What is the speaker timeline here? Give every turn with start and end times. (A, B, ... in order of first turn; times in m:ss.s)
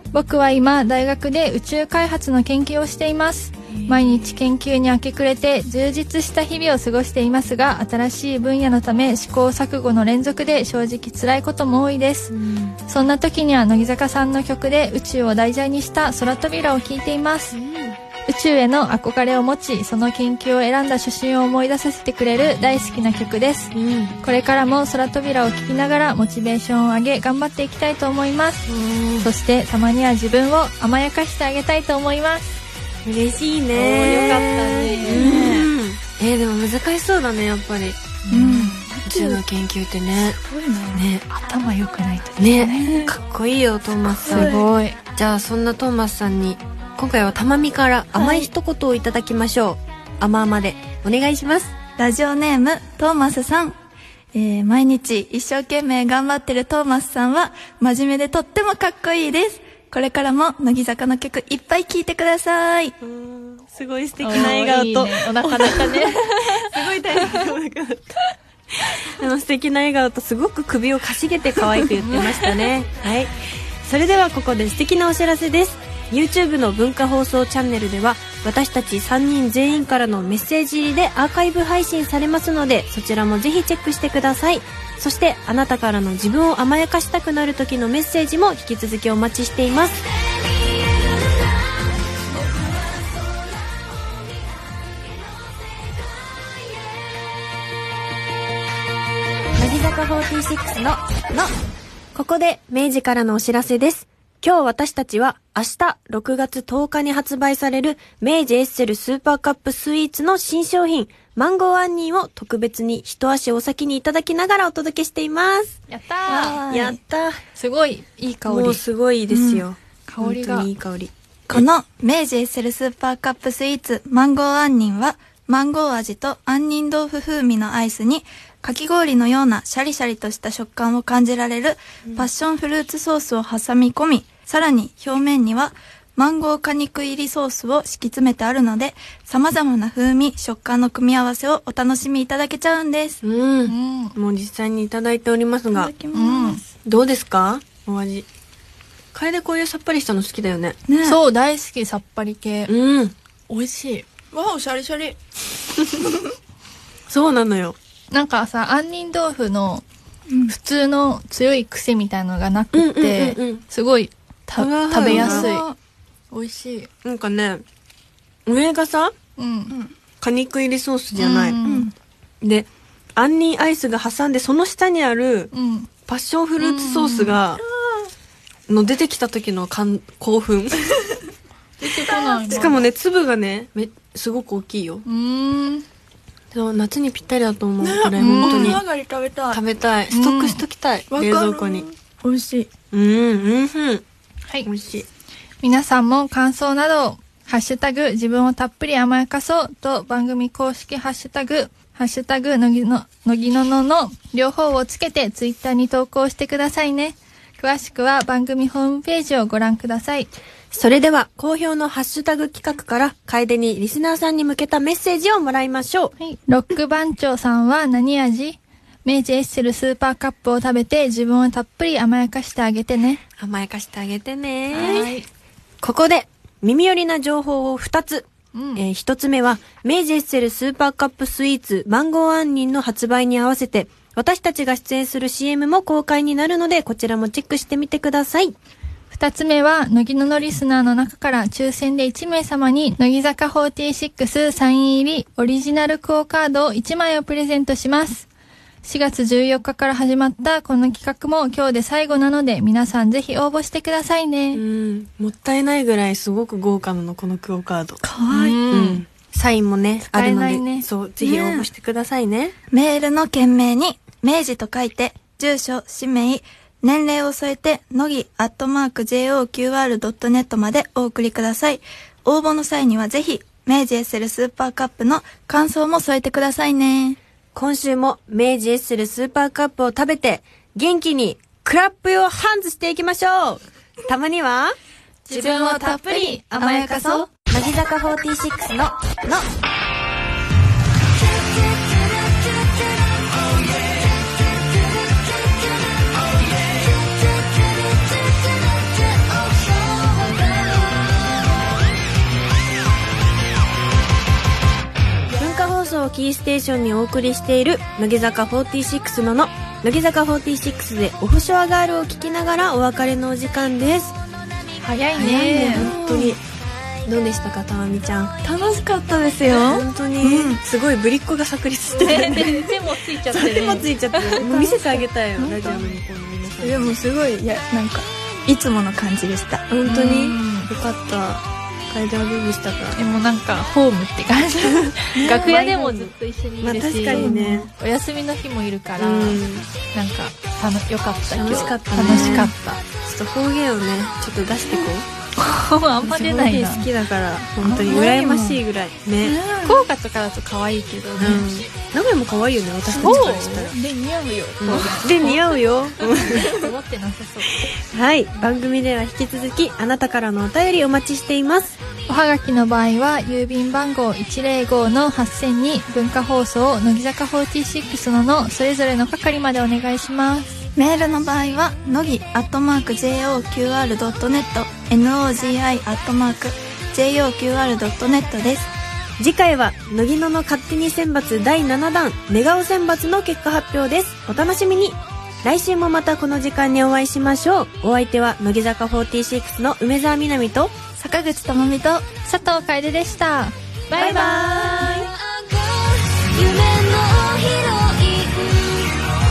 0:00.1-0:12.3 A
0:12.3-0:12.8 B
0:12.8-0:17.6 A
0:17.5-0:18.0 B
0:18.2-0:28.7 A
0:23.7-0:24.2 B
0:28.7-0:29.3 B
0:29.2-0:32.6 A
0:33.0-0:38.0 B
0:33.7-0:35.5 A
0:34.0-0:35.7 C
0:38.2-0:38.9 A
0:38.3-0:39.4 C
0:39.0-0:40.4 B
0:40.2-0:41.1 C
0:40.9-0:41.2 B
0:41.3-0:43.1 A
0:42.4-0:44.6 B
0:44.2-0:44.6 C
0:44.2-0:45.0 A
0:45.2-0:51.7 B
0:48.1-0:48.5 C
0:52.0-0:53.7 C
0:54.3-1:02.9 C
1:03.0-1:05.8 B
1:04.2-1:07.3 A
1:05.4-1:06.0 C
1:06.5-1:30.1 B
1:12.0-1:12.5 A
1:39.6-1:41.5 B
1:42.1-1:57.4 B
1:55.9-1:56.6 A
1:56.3-1:57.0 C
1:57.6-1:58.8 A
1:58.4-2:01.6 B
1:59.3-1:59.6 C
2:00.1-2:00.7 A
2:01.5-2:23.2 C
2:23.2-2:25.9 B
2:23.6-2:24.1 A
2:25.7-2:26.6 C
2:26.1-2:26.6 A
2:26.8-2:28.3 B
2:29.1-2:30.8 B
2:30.9-2:31.2 C
2:31.0-2:32.7 A
2:32.7-2:33.1 B
2:33.5-2:34.0 A
2:34.3-2:35.2 C
2:37.1-2:37.8 B
2:38.1-2:39.8 A
2:40.3-2:40.5 C
2:40.5-2:45.7 A
2:42.7-2:43.6 B
2:44.6-2:45.5 B
2:45.0-2:45.8 C
2:46.3-2:46.9 A
2:47.0-2:47.6 B
2:48.5-2:49.1 B
2:49.4-2:49.7 A
2:49.7-2:49.9 C
2:50.2-2:51.6 B
2:51.1-2:51.9 A
2:51.6-2:51.9 C
2:52.4-2:55.5 B
2:55.5-2:55.9 A
2:56.1-2:57.6 B
2:56.6-2:57.4 A
2:58.7-3:01.0 B
3:01.8-3:02.8 A
3:01.8-3:02.8 C
3:02.5-3:05.0 B
3:05.0-3:05.8 A
3:06.5-3:08.8 B
3:07.8-3:09.6 C
3:08.2-3:08.8 A
3:09.5-3:11.9 B
3:10.1-3:10.6 A
3:11.1-3:12.7 C
3:12.9-3:14.0 B
3:14.6-3:15.0 B
3:15.6-3:30.3 A
3:30.7-3:36.1 B
3:36.2-3:43.2 A
3:43.4-3:45.1 B
3:44.7-3:45.3 A
3:44.8-3:45.1 C
3:45.8-3:58.5 B
3:48.5-3:48.8 A
3:59.1-4:08.2 A
4:08.8-4:14.6 A
4:14.5-4:18.0 B
4:18.0-4:18.6 C
4:18.3-4:19.0 A
4:18.7-4:22.5 B
4:20.0-4:20.9 A
4:21.2-4:21.7 C
4:22.7-4:37.2 C
4:37.5-4:44.7 B
4:45.3-4:47.3 C
4:45.3-4:49.5 B
4:45.3-4:45.9 A
5:05.3-5:14.1 B
5:14.8-5:15.9 A
5:15.1-5:16.4 C
5:15.4-5:16.4 B
5:17.0-5:18.3 B
5:18.4-5:20.6 C
5:19.5-5:22.7 B
5:21.9-5:24.7 A
5:22.0-5:22.6 C
5:23.2-5:27.0 B
5:24.5-5:26.0 C
5:26.6-5:29.6 C
5:29.7-5:33.0 B
5:29.8-5:30.7 A
5:33.0-5:42.8 A
5:35.1-5:35.8 C
5:35.5-5:37.7 B
5:37.1-5:37.7 C
5:39.0-5:39.7 B
5:41.3-5:42.5 B
5:41.9-5:42.5 C
5:43.0-5:45.1 B
5:45.4-5:46.8 A
5:46.0-5:49.4 B
5:47.6-5:48.6 C
5:47.7-5:48.2 A
5:49.2-5:49.9 C
5:49.5-5:51.6 A
5:51.2-5:53.7 B
5:52.9-5:55.2 C
5:52.9-5:53.6 A
5:54.6-5:56.5 B
5:54.7-5:57.6 A
5:56.3-5:56.7 C
5:57.7-6:01.8 B
6:02.0-6:10.6 A
6:10.8-6:18.7 C
6:19.2-6:30.7 B
6:31.0-6:32.0 C
6:32.2-6:34.9 A
6:33.9-6:35.1 B
6:35.2-6:38.9 D